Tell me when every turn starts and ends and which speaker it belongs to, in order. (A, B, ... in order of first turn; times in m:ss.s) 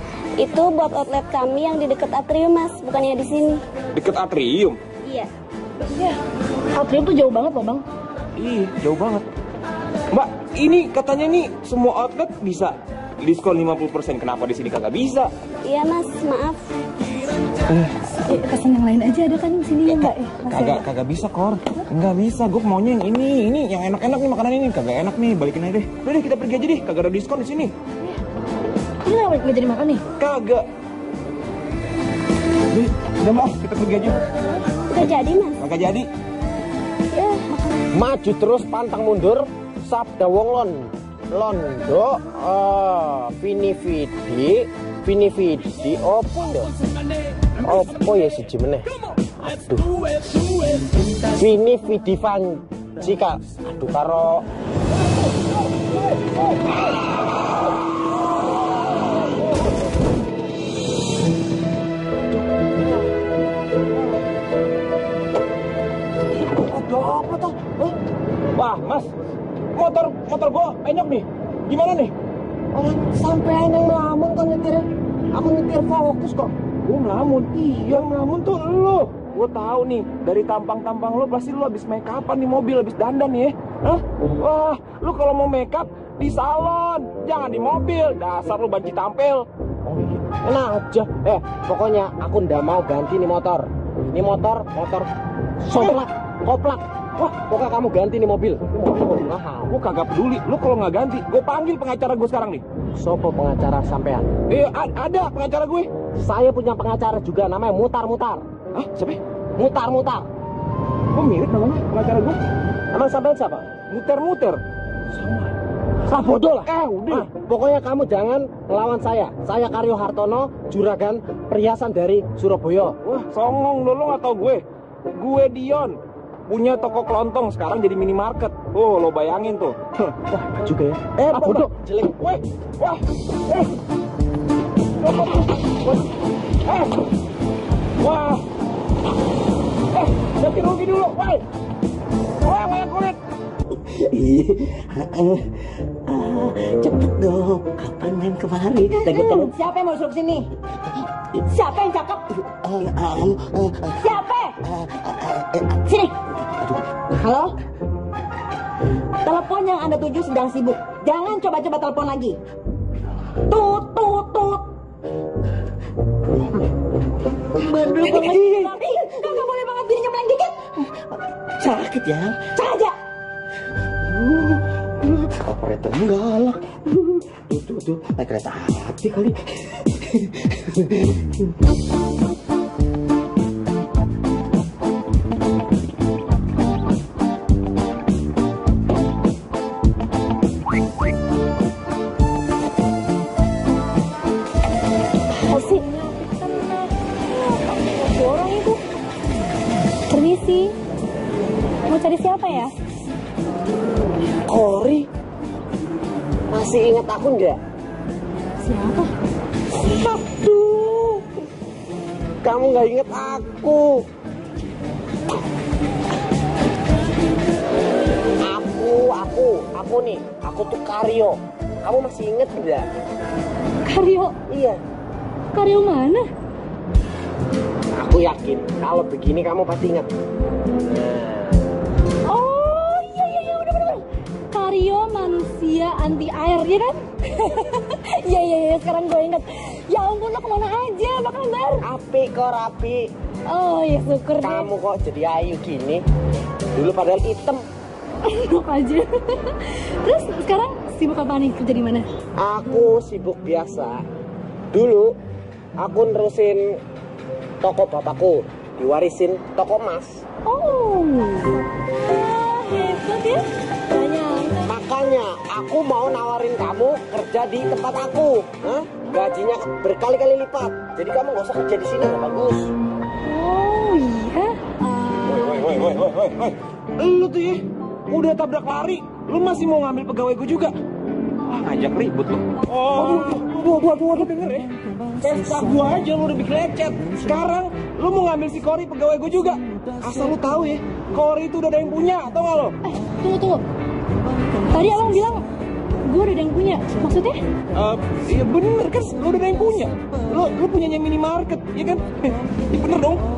0:00.4-0:03.6 A
0:04.0-0:04.8 B
0:05.0-0:05.3 A
0:05.8-0:06.2 C
0:06.7-0:07.8 C
0:08.4-0:09.3 B
0:10.1-0:15.3 B
0:15.6-0:16.6 A
0:17.7-0:17.9 B
0:18.3-0:20.8 C
0:19.9-0:27.7 B
0:29.0-0:30.0 C
0:30.2-0:30.6 B
0:32.7-0:34.2 B
0:34.9-0:35.6 A
0:35.6-0:36.1 B
0:37.1-0:37.5 A
0:38.0-0:46.7 D
0:47.6-0:48.9 D
0:49.4-0:49.9 D
0:51.3-0:54.4 D
1:06.5-1:07.9 D
1:08.6-1:09.1 B
1:09.8-1:12.1 B
1:12.7-1:16.5 D
1:16.9-1:30.2 B
1:30.4-1:35.1 D
1:35.6-1:39.7 D
1:35.7-1:36.0 B
1:39.7-1:42.6 B
1:43.0-1:44.3 D
1:44.5-1:45.9 B
1:46.2-1:48.4 D
1:48.7-1:49.2 B
1:49.6-1:50.3 D
1:51.1-1:52.4 B
1:52.9-1:53.7 D
1:53.9-1:54.6 B
1:55.2-1:55.5 B
1:56.1-2:03.0 D
1:56.6-1:57.3 B
2:03.0-2:06.0 B
2:06.5-2:10.2 B
2:10.3-2:12.2 D
2:11.2-2:13.7 B
2:15.0-2:16.1 B
2:16.6-2:17.0 B
2:18.0-2:18.4 B
2:19.9-2:21.4 B
2:22.4-2:23.2 B
2:23.9-2:29.5 E
2:28.9-2:30.5 F
2:31.5-2:32.3 F
2:32.7-2:34.1 E
2:34.0-2:34.5 F
2:34.7-2:35.8 E
2:35.9-2:36.1 F
2:37.1-2:37.6 F
2:39.2-2:42.4 F
2:43.5-2:44.7 F
2:47.6-2:48.8 E
2:48.0-2:50.7 F
2:51.6-2:52.6 E
2:52.6-2:52.9 F
2:54.0-3:01.5 E
3:15.5-3:18.8 C
3:20.1-3:20.8 C
3:21.9-3:22.7 C
3:24.5-3:25.1 D
3:26.5-3:27.6 D
3:28.6-3:29.1 C
3:30.0-3:31.2 D
3:32.4-3:34.0 D
3:38.5-3:42.8 D
3:43.9-3:44.4 C
3:44.5-3:44.8 D
3:45.5-3:46.3 C
3:48.0-3:50.1 D
3:50.9-3:51.6 D
3:52.3-4:01.8 C
4:01.8-4:03.1 D
4:03.5-4:04.7 C
4:04.4-4:06.0 D
4:06.7-4:07.6 D
4:08.2-4:12.1 C
4:12.4-4:14.0 D
4:14.7-4:15.1 D
4:15.8-4:16.8 D
4:17.6-4:20.2 D
4:20.5-4:24.8 C
4:24.6-4:32.7 D
4:33.3-4:34.6 C
4:35.2-4:40.7 B
4:41.5-4:44.7 B
4:45.2-4:52.8 B
4:52.8-4:53.6 C
4:54.6-4:55.4 C
4:56.1-4:57.4 C
4:57.7-5:02.0 B
5:02.7-5:03.2 B